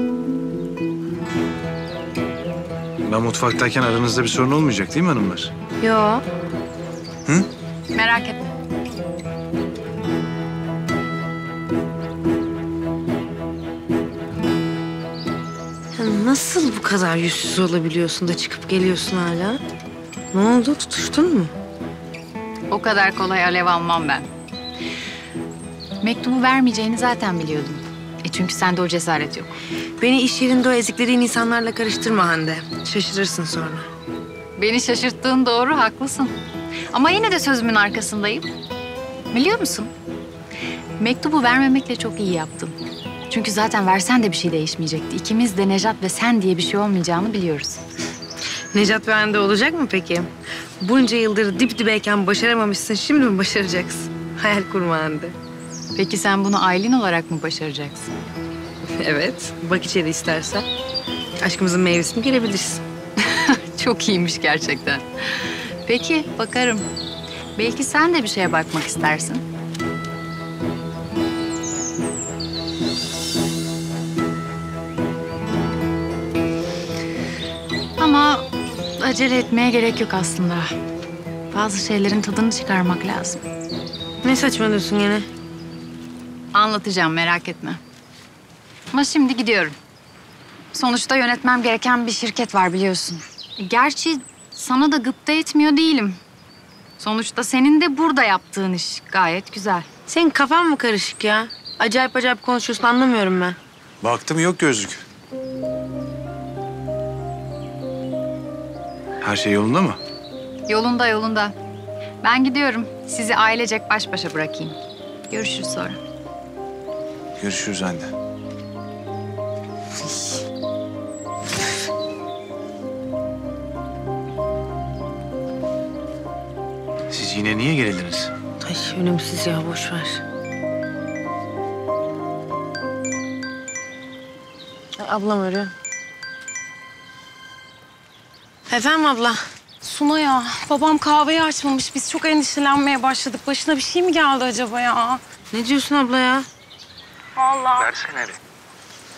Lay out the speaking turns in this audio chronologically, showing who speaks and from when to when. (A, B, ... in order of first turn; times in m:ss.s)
0:03.0-0:05.5 A
0:05.8-0:06.2 B
0:07.9-0:08.5 C
0:15.9-0:19.6 B
0:20.3-0:21.5 B
0:22.7-0:24.3 C
0:26.0-0:29.5 C
0:30.0-0:33.9 B
0:34.6-0:36.4 C
0:36.9-0:38.5 C
0:39.3-0:39.9 C
0:41.0-0:42.8 C
0:43.3-0:47.8 C
0:48.7-0:55.4 B
0:56.0-0:58.1 C
0:58.9-1:00.7 B
1:01.4-1:02.8 B
1:03.3-1:06.9 C
1:07.6-1:09.4 C
1:18.0-1:18.5 C
1:19.0-1:20.7 C
1:21.5-1:23.4 C
1:24.2-1:25.3 B
1:26.5-1:27.8 C
1:28.9-1:29.8 C
1:30.7-1:36.2 C
1:37.0-1:39.9 C
1:40.1-1:43.6 B
1:44.0-1:45.0 A
1:49.2-1:50.0 A
1:50.7-1:51.6 C
1:52.2-1:54.8 C
1:55.3-1:56.0 C
1:57.4-1:58.1 A
2:07.1-2:08.3 A
2:08.6-2:10.2 B
2:15.0-2:15.7 B
2:18.7-2:19.4 B
2:19.8-2:25.2 D
2:25.5-2:26.5 B
2:27.4-2:27.9 D